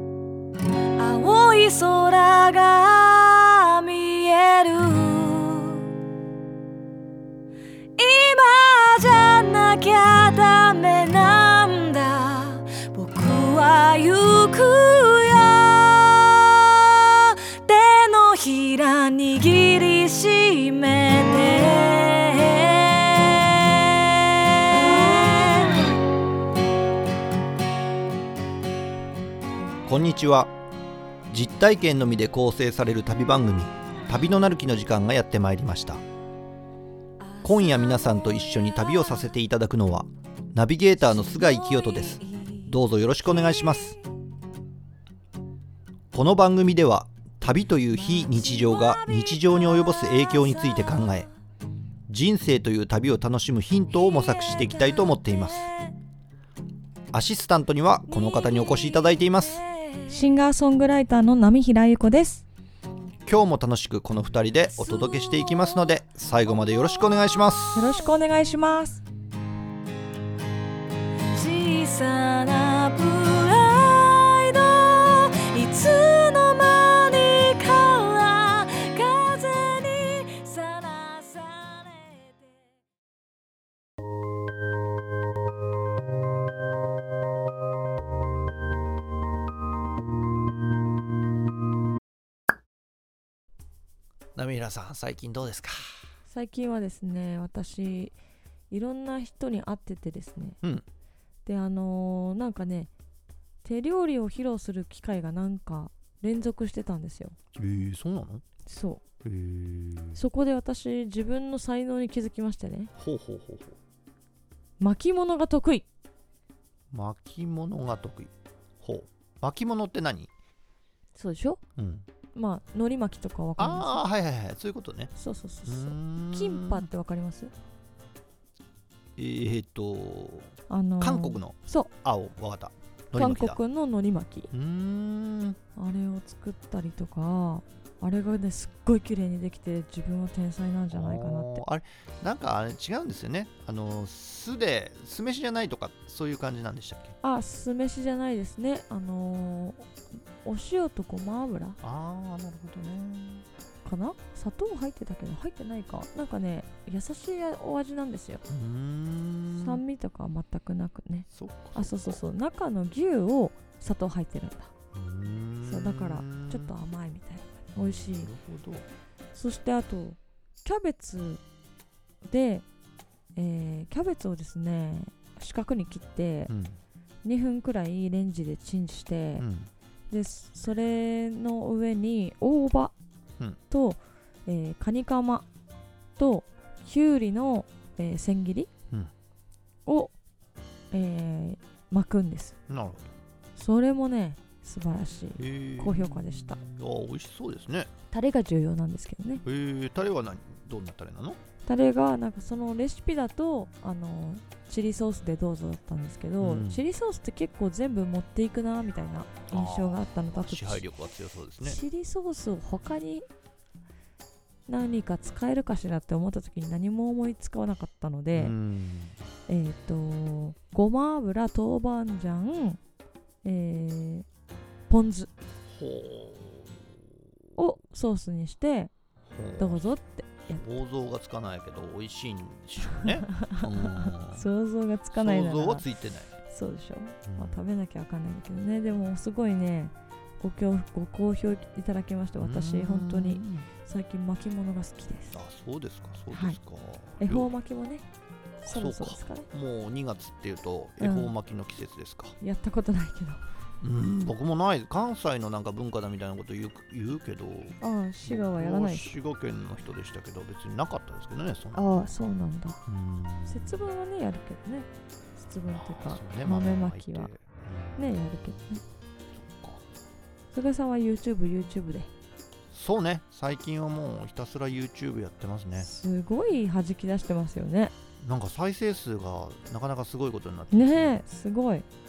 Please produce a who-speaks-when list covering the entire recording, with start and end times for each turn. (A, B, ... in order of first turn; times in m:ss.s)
0:01.0-0:05.9 A
0:08.0-0:26.0 A
0:29.8-0:30.5 B
0:31.3-0:36.0 B
0:37.2-0:39.2 A
0:37.4-0:44.0 B
0:41.1-0:42.8 A
0:43.5-0:44.0 A
0:46.1-0:51.3 B
0:47.9-0:51.3 A
0:52.1-0:55.7 B
0:53.9-0:55.9 A
0:57.1-0:59.6 B
0:58.1-1:00.2 A
1:00.1-1:02.4 C
1:03.2-1:08.0 B
1:04.7-1:07.4 A
1:07.7-1:09.0 C
1:11.3-1:22.7 A
1:34.4-1:36.1 B
1:36.3-1:38.2 C
1:38.7-1:40.6 C
1:41.4-1:42.9 C
1:43.6-1:47.4 C
1:47.5-1:48.4 B
1:48.6-1:49.0 C
1:49.2-1:50.2 B
1:50.1-1:52.9 C
1:53.0-1:53.8 B
1:54.8-1:55.8 C
1:56.9-2:00.3 B
2:01.2-2:01.6 C
2:01.8-2:02.0 B
2:02.3-2:04.0 C
2:03.6-2:05.1 B
2:05.2-2:07.5 C
2:05.6-2:06.9 B
2:09.2-2:13.6 B
2:10.7-2:11.9 C
2:13.1-2:14.5 C
2:14.5-2:15.6 B
2:15.8-2:21.6 C
2:20.9-2:27.1 B
2:27.2-2:29.9 C
2:30.4-2:31.8 C
2:31.8-2:33.4 B
2:33.8-2:38.4 C
2:38.5-2:39.8 B
2:39.5-2:44.7 C
2:41.3-2:42.2 B
2:44.9-2:46.7 B
2:45.6-2:48.3 C
2:47.8-2:48.8 B
2:49.3-2:51.4 C
2:52.2-2:52.6 C
2:53.4-2:56.5 C
2:56.5-2:56.8 B
2:57.2-2:59.4 C
2:59.4-2:59.7 B
3:00.1-3:02.9 C
3:03.7-3:05.5 C
3:06.2-3:08.7 C
3:09.8-3:10.1 C
3:10.9-3:12.6 C
3:12.7-3:13.1 B
3:13.6-3:16.6 C
3:15.4-3:17.9 B
3:18.1-3:19.4 C
3:19.4-3:21.4 B
3:21.6-3:30.8 C
3:26.4-3:26.8 B
3:29.5-3:31.8 B
3:31.6-3:33.3 C
3:34.7-3:38.5 C
3:38.3-3:39.2 B
3:39.5-3:42.8 C
3:43.4-3:44.3 C
3:44.9-3:45.3 C
3:45.7-3:46.9 B
3:47.6-3:48.9 C
3:49.3-3:49.8 B
3:49.6-3:50.6 C
3:50.5-3:54.4 B
3:52.8-3:55.8 C
3:55.1-3:56.3 B
3:56.4-4:05.4 C
3:57.2-3:57.6 B
4:02.4-4:03.7 B
4:05.3-4:07.5 B
4:06.3-4:06.6 C
4:07.2-4:08.0 C
4:08.6-4:09.5 C
4:08.6-4:12.4 B
4:11.0-4:11.3 C
4:12.4-4:13.4 C
4:13.8-4:22.0 B
4:17.8-4:19.1 C
4:21.8-4:22.8 C
4:22.8-4:23.8 B
4:23.5-4:27.3 C
4:25.7-4:28.1 B
4:28.0-4:28.8 C
4:29.3-4:29.8 B
4:30.5-4:32.1 C
4:32.7-4:35.9 B
4:35.8-4:37.9 C
4:38.2-4:41.2 B
4:40.7-4:41.8 C